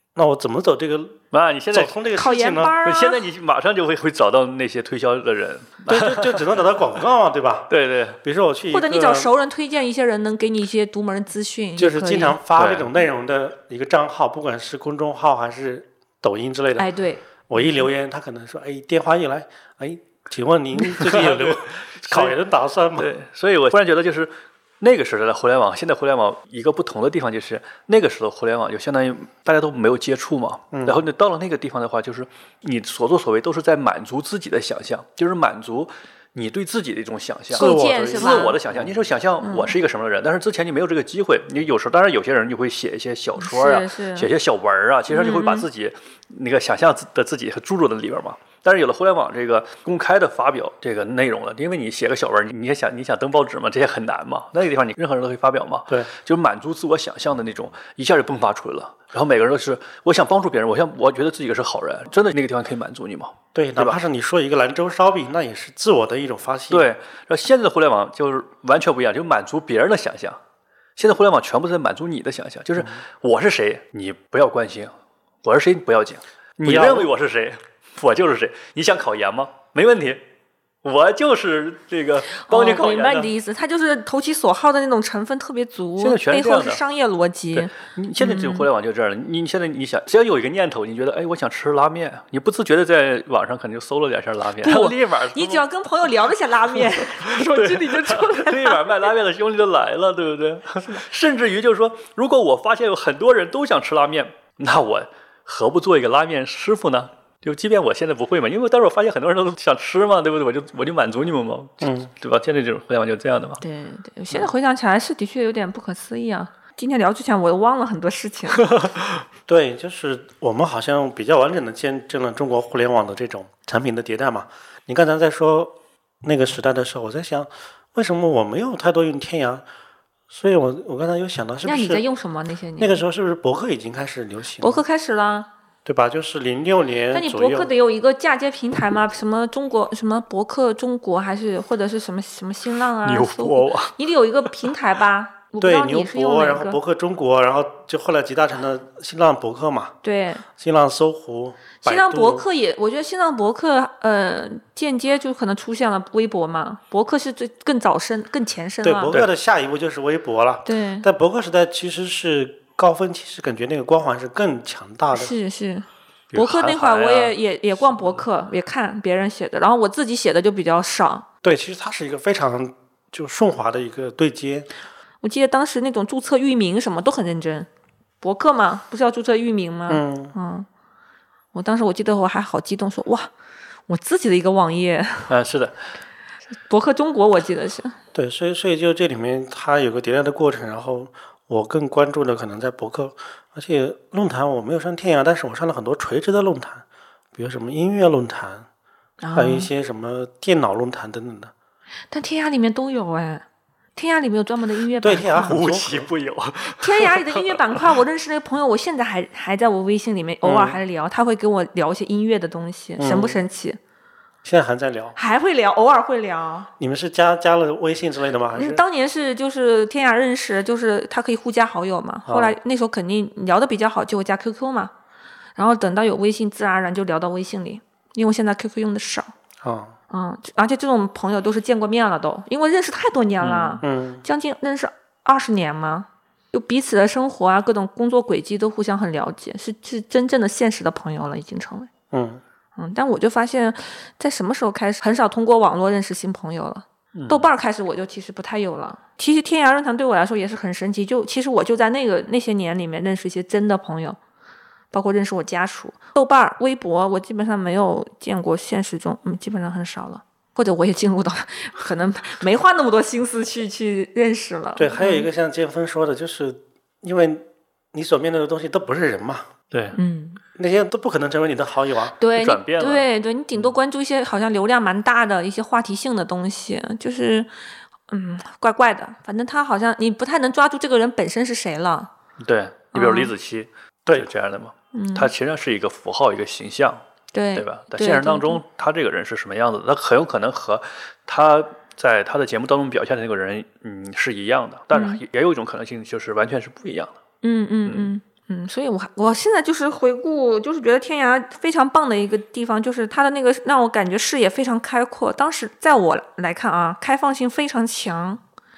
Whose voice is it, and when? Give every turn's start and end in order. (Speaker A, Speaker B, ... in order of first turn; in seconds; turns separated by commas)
Speaker A: 0.1-1.2, Speaker B: 1.3-2.0, Speaker A: 1.7-2.8, Speaker C: 2.2-3.2, Speaker B: 2.8-6.5, Speaker A: 5.9-9.3, Speaker B: 7.7-8.2, Speaker C: 8.7-12.4, Speaker A: 11.8-16.9, Speaker B: 12.6-12.9, Speaker C: 16.8-17.2, Speaker A: 17.5-23.1, Speaker B: 20.9-22.4, Speaker B: 23.0-64.0, Speaker A: 30.7-31.0, Speaker A: 37.5-39.0, Speaker C: 37.5-38.6, Speaker C: 39.4-39.7, Speaker C: 43.4-44.3, Speaker C: 45.1-45.7, Speaker A: 63.5-66.9, Speaker B: 66.7-70.4, Speaker B: 71.0-74.9, Speaker B: 75.4-80.2, Speaker A: 76.7-77.1, Speaker B: 80.8-83.3, Speaker C: 82.4-88.7, Speaker B: 86.0-86.8, Speaker B: 87.5-95.6, Speaker C: 94.6-99.1, Speaker B: 97.2-113.6, Speaker A: 111.8-112.1, Speaker C: 113.6-118.7, Speaker B: 118.8-119.2, Speaker A: 119.5-129.7, Speaker A: 130.3-132.0, Speaker C: 131.6-133.0, Speaker A: 132.8-134.8, Speaker C: 134.6-135.5, Speaker A: 135.8-137.7, Speaker C: 137.1-146.8, Speaker B: 143.0-143.9, Speaker A: 145.6-149.9, Speaker C: 150.0-150.4, Speaker A: 150.6-152.4, Speaker C: 151.8-159.2, Speaker A: 158.8-165.3, Speaker C: 160.7-161.1, Speaker C: 165.1-171.3, Speaker B: 166.3-167.3, Speaker A: 171.4-174.7, Speaker C: 175.2-177.7, Speaker C: 178.2-180.7, Speaker A: 179.9-180.3, Speaker C: 181.5-183.3, Speaker C: 183.9-185.3, Speaker B: 185.3-185.8, Speaker C: 186.7-188.0, Speaker A: 188.1-198.7, Speaker C: 199.2-199.7, Speaker A: 199.3-201.5, Speaker C: 202.1-203.4, Speaker C: 204.0-205.6, Speaker A: 205.0-206.1, Speaker B: 205.3-207.8, Speaker C: 206.8-213.8, Speaker A: 210.4-210.8, Speaker A: 213.0-213.4, Speaker A: 214.4-215.2, Speaker C: 215.2-216.7, Speaker A: 216.8-218.8, Speaker C: 218.6-224.9, Speaker A: 222.3-222.6, Speaker C: 225.6-229.3, Speaker A: 229.6-229.9, Speaker C: 230.1-241.9, Speaker B: 233.4-233.8, Speaker A: 233.8-234.2, Speaker A: 242.1-242.4, Speaker C: 242.8-254.2, Speaker B: 247.2-247.4, Speaker C: 254.9-265.3, Speaker A: 264.8-269.5, Speaker B: 269.7-270.0, Speaker C: 270.0-270.4, Speaker A: 270.6-272.1, Speaker C: 272.2-277.5, Speaker B: 272.4-273.1, Speaker C: 278.1-282.1, Speaker B: 282.4-287.0, Speaker C: 282.9-283.3, Speaker C: 284.9-285.3, Speaker C: 287.3-288.6, Speaker B: 287.6-297.1, Speaker C: 294.9-295.2, Speaker C: 297.4-308.4, Speaker B: 297.9-298.1